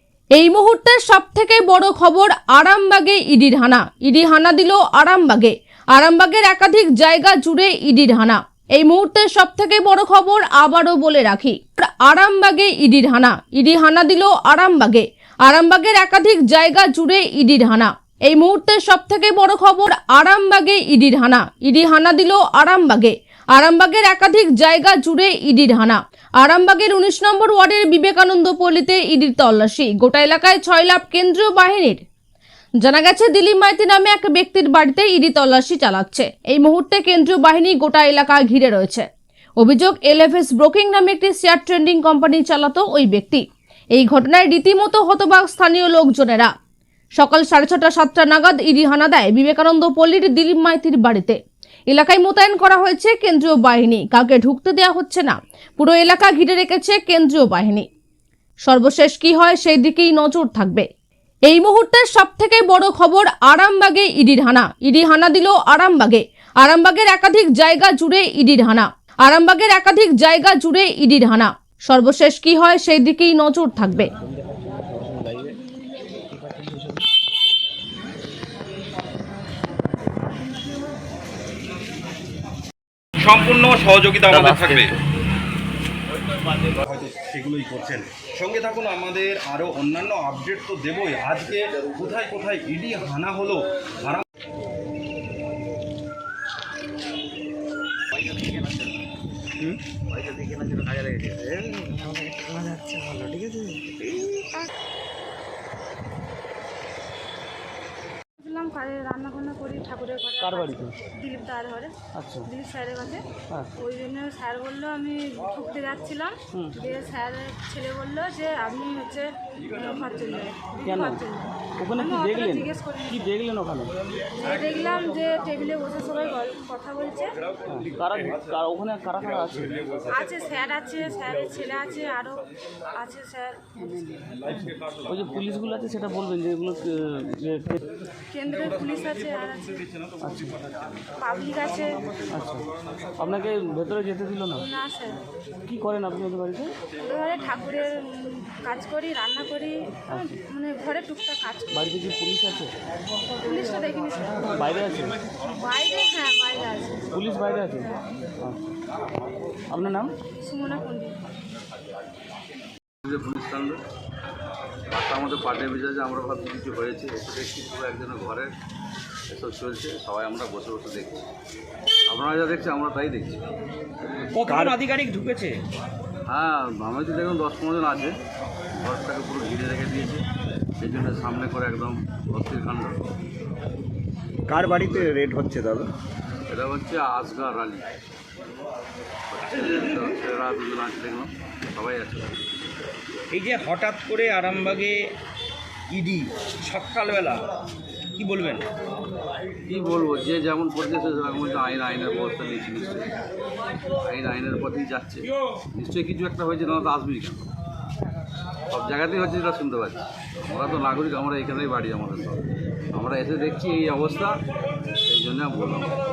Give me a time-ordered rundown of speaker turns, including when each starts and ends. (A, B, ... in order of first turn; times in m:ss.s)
0:00.4-0:32.0 A
0:32.8-0:39.1 A
0:39.6-0:46.5 A
0:47.2-0:57.9 A
0:58.6-1:00.9 A
1:01.5-1:14.1 A
1:14.3-1:15.6 B
1:16.4-1:17.0 B
1:23.2-1:25.0 C
1:26.7-1:34.2 C
1:38.4-1:38.7 D
1:40.2-1:44.4 D
1:48.4-1:51.9 E
1:50.4-1:51.0 B
1:52.1-1:52.5 B
1:52.4-2:03.3 E
1:53.5-1:53.7 B
2:00.8-2:04.0 B
2:04.4-2:07.4 E
2:07.7-2:10.1 B
2:10.1-2:14.3 E
2:15.0-2:17.9 B
2:18.3-2:20.0 E
2:20.2-2:20.6 B
2:21.1-2:22.2 E
2:22.2-2:24.6 B
2:24.6-2:25.2 E
2:25.7-2:26.8 B
2:27.0-2:32.0 E
2:30.1-2:30.4 B
2:31.7-2:32.7 B
2:33.4-2:34.7 E
2:34.6-2:35.2 B
2:35.4-2:37.2 E
2:37.1-2:38.6 B
2:39.7-2:40.2 B
2:40.4-2:41.2 E
2:43.0-2:43.8 F
2:44.9-2:48.5 F
2:49.3-2:51.3 F
2:52.1-2:53.4 F
2:54.3-2:55.6 D
2:56.3-2:58.2 F
2:58.8-3:00.3 F
3:00.8-3:03.0 F
3:04.5-3:05.9 D
3:04.6-3:05.2 F
3:06.5-3:07.9 F
3:09.3-3:12.4 F
3:13.3-3:15.1 D
3:15.9-3:17.5 D
3:18.2-3:18.6 D
3:19.7-3:23.2 F
3:24.0-3:27.4 F
3:28.7-3:34.4 F
3:35.0-3:36.0 F